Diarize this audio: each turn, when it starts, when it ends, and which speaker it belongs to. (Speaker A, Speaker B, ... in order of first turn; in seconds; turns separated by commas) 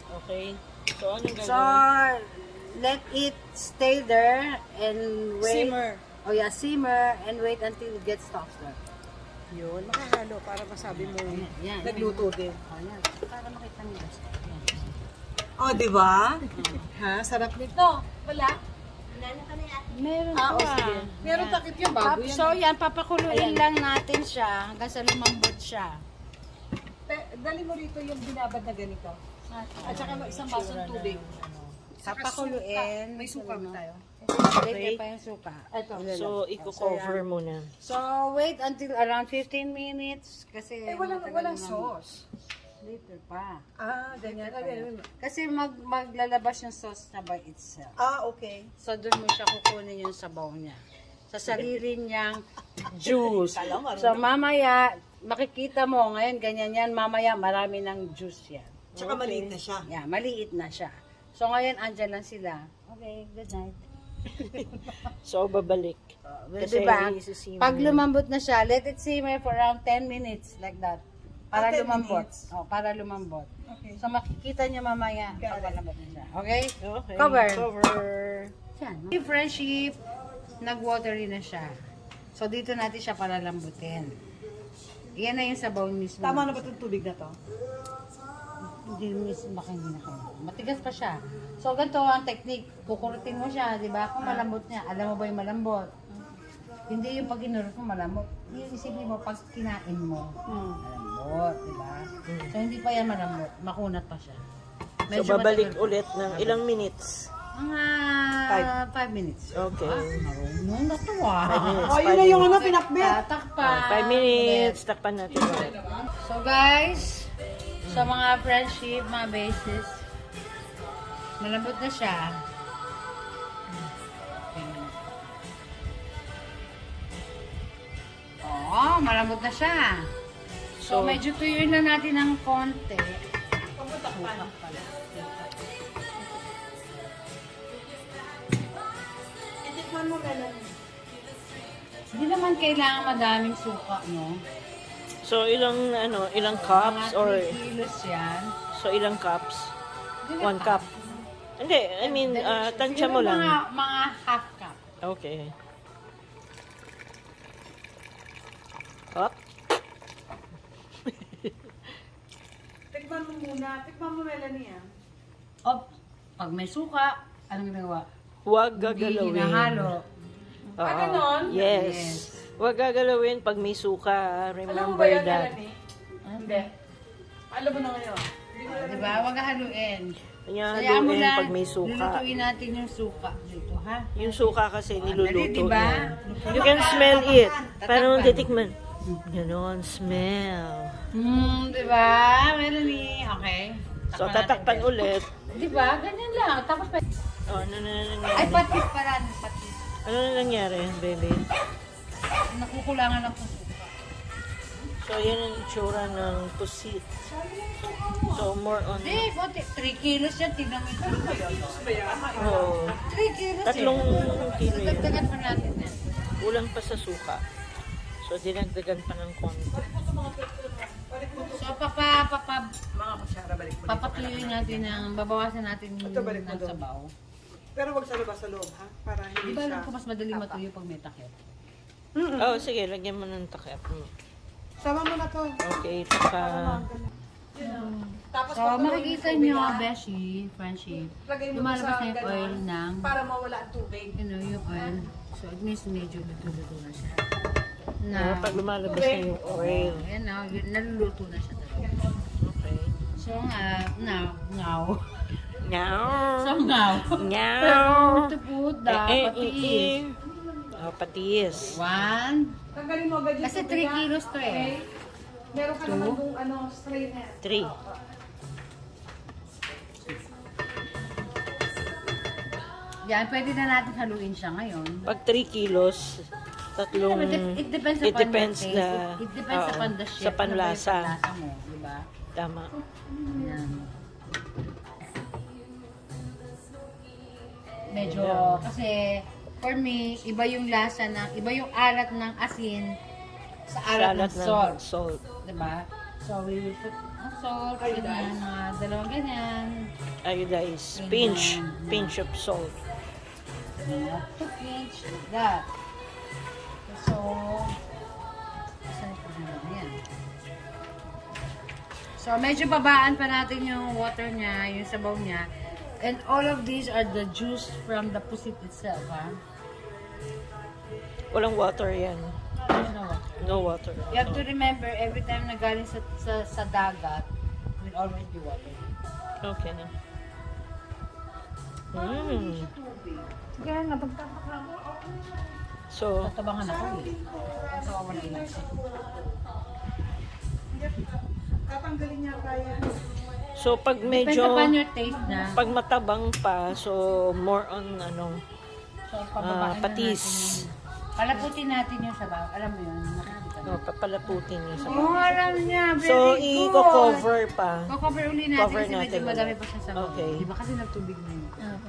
Speaker A: 0.1-1.9, Speaker B: 1.4-8.8, Speaker C: 5.4-6.0, Speaker C: 9.5-12.6, Speaker B: 10.9-15.0, Speaker C: 15.6-18.6, Speaker B: 16.5-16.9, Speaker C: 19.2-19.8, Speaker B: 19.9-26.0, Speaker C: 20.3-22.6, Speaker C: 23.3-23.6, Speaker C: 27.1-29.2, Speaker B: 29.5-30.2, Speaker C: 29.8-31.2, Speaker A: 29.8-31.8, Speaker B: 32.0-37.2, Speaker C: 32.0-34.0, Speaker A: 34.5-35.0, Speaker C: 35.7-36.0, Speaker A: 36.1-37.7, Speaker B: 37.8-41.9, Speaker C: 40.9-42.2, Speaker B: 42.8-43.6, Speaker C: 43.8-45.0, Speaker B: 44.2-48.0, Speaker C: 48.0-48.7, Speaker B: 48.8-63.8, Speaker C: 53.4-54.2, Speaker A: 59.0-59.2, Speaker C: 59.0-59.9, Speaker A: 64.4-68.1, Speaker B: 64.5-64.9, Speaker B: 66.3-77.7, Speaker C: 71.5-72.5, Speaker C: 73.7-74.0, Speaker C: 75.4-75.8, Speaker A: 76.8-78.5, Speaker B: 78.8-80.0, Speaker B: 80.6-81.8, Speaker B: 82.3-84.1, Speaker B: 85.2-86.7, Speaker C: 86.2-87.3, Speaker B: 88.7-95.9, Speaker C: 94.2-94.5, Speaker B: 96.9-104.4, Speaker C: 100.5-100.8, Speaker A: 102.2-102.5, Speaker B: 105.1-106.0, Speaker A: 105.1-107.3, Speaker B: 107.5-114.8, Speaker A: 109.5-110.2, Speaker A: 111.5-112.6, Speaker C: 111.8-113.2, Speaker A: 113.6-115.8, Speaker B: 116.2-117.3, Speaker A: 117.8-118.1, Speaker B: 117.9-120.0, Speaker B: 121.4-122.4, Speaker B: 124.5-125.0, Speaker B: 128.4-130.1, Speaker A: 130.8-131.2, Speaker B: 130.8-133.2, Speaker C: 133.8-134.7, Speaker B: 134.1-135.4, Speaker C: 139.6-140.7, Speaker B: 142.1-144.4, Speaker A: 145.2-147.6, Speaker B: 146.5-148.5, Speaker A: 148.7-149.7, Speaker B: 150.2-151.1, Speaker A: 150.4-150.9, Speaker A: 151.6-153.6, Speaker B: 152.0-154.8, Speaker A: 155.0-155.5, Speaker A: 161.0-161.7, Speaker C: 162.9-164.8, Speaker B: 166.4-168.1, Speaker A: 168.4-169.9, Speaker B: 168.7-170.1, Speaker A: 170.8-175.6, Speaker C: 170.8-171.5, Speaker B: 171.5-172.4, Speaker C: 174.7-175.7, Speaker B: 176.2-176.7, Speaker C: 176.4-176.7, Speaker C: 177.5-179.3, Speaker B: 178.7-180.2, Speaker A: 180.4-182.2, Speaker B: 180.7-189.2, Speaker A: 184.1-191.1, Speaker C: 186.2-187.8, Speaker B: 191.1-194.9, Speaker A: 194.1-195.3, Speaker B: 195.5-197.0, Speaker A: 197.5-198.7, Speaker B: 198.3-199.8, Speaker A: 200.0-201.4, Speaker B: 202.5-203.9, Speaker A: 205.0-207.2, Speaker C: 207.2-208.5, Speaker A: 208.3-209.3, Speaker B: 209.0-211.7, Speaker C: 211.3-212.9, Speaker A: 212.4-213.0, Speaker B: 212.9-216.1, Speaker A: 213.6-215.2, Speaker A: 216.4-217.4, Speaker A: 218.2-219.7, Speaker C: 219.7-221.8, Speaker B: 221.5-222.7, Speaker C: 222.9-225.0, Speaker B: 223.9-227.1, Speaker C: 226.0-226.8, Speaker C: 227.8-230.6, Speaker B: 229.4-231.5, Speaker C: 232.2-232.5, Speaker A: 232.4-234.1, Speaker C: 234.8-235.6, Speaker A: 235.6-236.8, Speaker C: 236.3-239.9, Speaker B: 238.5-243.1, Speaker C: 241.2-244.2, Speaker B: 244.2-247.3, Speaker B: 248.0-248.6, Speaker A: 248.1-250.1, Speaker C: 248.8-249.5, Speaker B: 249.5-252.0, Speaker C: 251.8-252.1, Speaker A: 252.4-253.0, Speaker B: 253.2-255.1, Speaker A: 255.6-258.3, Speaker B: 256.4-260.0, Speaker A: 258.9-260.2, Speaker A: 260.7-262.1, Speaker B: 261.7-262.5, Speaker C: 262.7-264.8, Speaker B: 263.4-264.8, Speaker C: 265.5-267.4, Speaker B: 265.8-266.2, Speaker A: 267.4-267.8, Speaker B: 273.0-275.1, Speaker A: 275.1-281.2, Speaker B: 276.9-282.1, Speaker A: 282.3-282.7, Speaker B: 283.3-283.9, Speaker B: 287.9-293.0, Speaker A: 288.0-288.7, Speaker B: 293.7-294.8, Speaker A: 293.9-295.2, Speaker B: 295.4-299.9, Speaker C: 297.8-298.4, Speaker A: 300.2-302.8, Speaker B: 300.9-302.1, Speaker B: 303.8-305.7, Speaker B: 306.9-307.8, Speaker B: 308.9-310.0, Speaker B: 312.2-315.5, Speaker B: 316.0-319.4, Speaker A: 321.3-322.4, Speaker B: 322.6-323.6, Speaker A: 323.4-324.4, Speaker B: 324.1-327.3, Speaker B: 327.8-328.9, Speaker A: 329.4-329.9, Speaker A: 331.9-332.7, Speaker C: 331.9-333.3, Speaker B: 333.6-335.1, Speaker A: 335.9-336.3, Speaker B: 336.2-337.1, Speaker C: 336.6-339.4, Speaker B: 337.7-338.7, Speaker C: 340.7-342.9, Speaker A: 343.5-344.8, Speaker B: 344.0-345.6, Speaker A: 345.3-348.4, Speaker B: 349.1-353.9, Speaker A: 349.4-350.6, Speaker A: 353.6-355.1, Speaker B: 354.8-357.3, Speaker C: 354.8-355.4, Speaker A: 356.0-357.9, Speaker B: 357.9-361.6, Speaker A: 358.6-360.5